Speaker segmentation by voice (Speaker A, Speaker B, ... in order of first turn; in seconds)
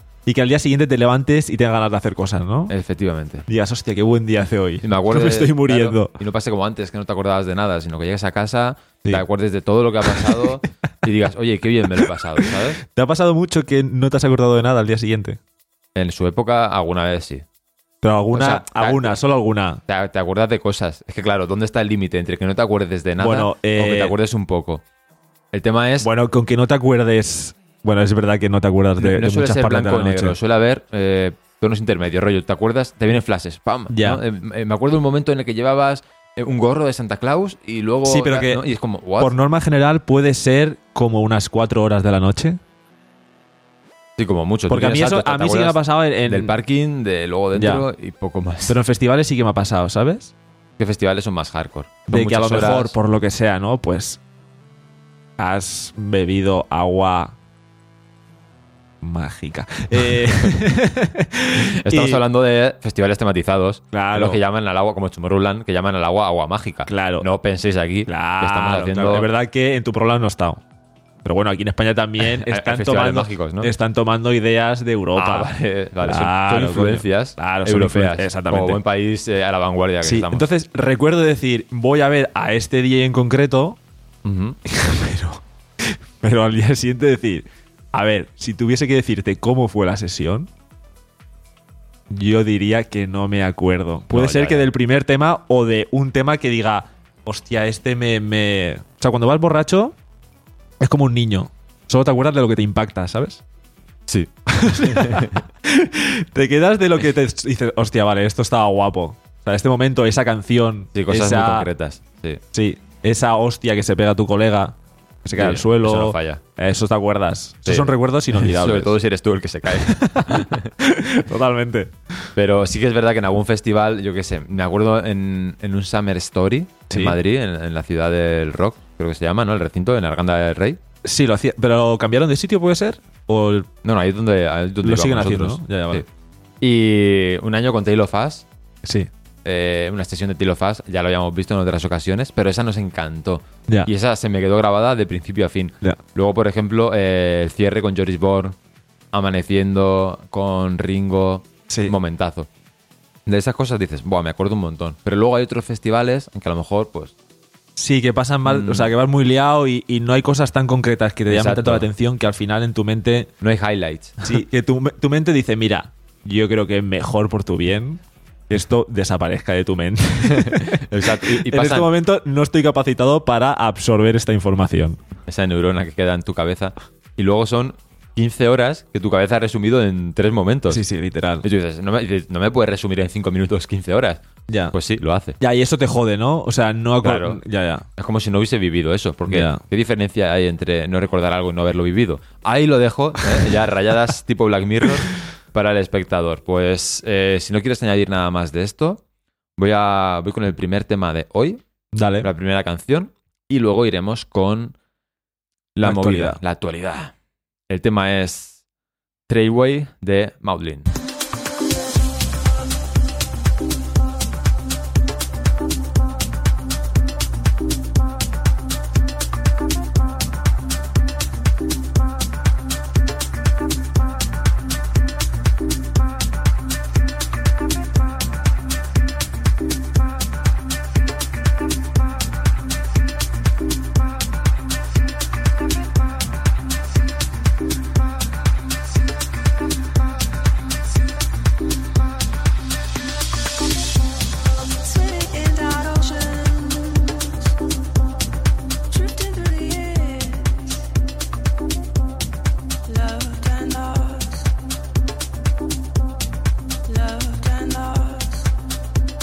Speaker A: 0.3-2.7, 3.5-6.1, 10.1-10.5, 12.4-15.4, 18.0-19.8, 23.2-24.1, 26.0-30.4, 33.9-34.2, 38.0-38.6, 39.2-42.6, 44.7-46.5, 47.5-47.9, 48.7-50.3, 52.1-54.2, 55.4-57.3, 59.0-62.2, 63.9-64.4, 66.9-67.3, 68.1-70.6, 71.2-78.8, 80.0-83.8, 84.7-90.5, 92.1-100.0, 100.8-103.4, 104.5-111.7, 112.5-118.9, 119.7-122.3, 126.9-127.2, 131.0-133.7, 134.8-136.1, 138.8-139.1, 151.7-151.9, 157.8-163.3, 164.2-175.0, 180.7-181.4, 184.5-184.8, 185.4-187.9, 189.3-189.6, 201.9-202.3, 205.8-206.4
Speaker B: 2.7-3.5, 4.8-12.8, 15.9-17.4, 18.3-19.2, 19.9-24.8, 25.5-26.1, 29.0-39.3, 44.2-48.8, 50.8-53.0, 60.0-60.5, 61.6-69.3, 72.2-73.7, 75.2-80.5, 84.2-84.6, 94.1-94.7, 104.1-105.4, 110.9-112.4, 115.3-116.4, 117.7-120.7, 122.4-130.8, 133.8-136.1, 136.6-138.5, 139.4-148.6, 149.1-152.5, 153.3-157.1, 158.4-158.9, 161.3-161.9, 163.4-164.4, 170.3-171.9, 175.3-180.8, 181.4-185.4, 187.0-187.4, 188.0-199.0, 199.6-201.6, 202.2-204.8, 205.8-207.1, 207.7-208.6, 209.3-210.9
Speaker C: 244.8-247.5, 248.9-250.8, 252.9-254.5, 256.9-258.5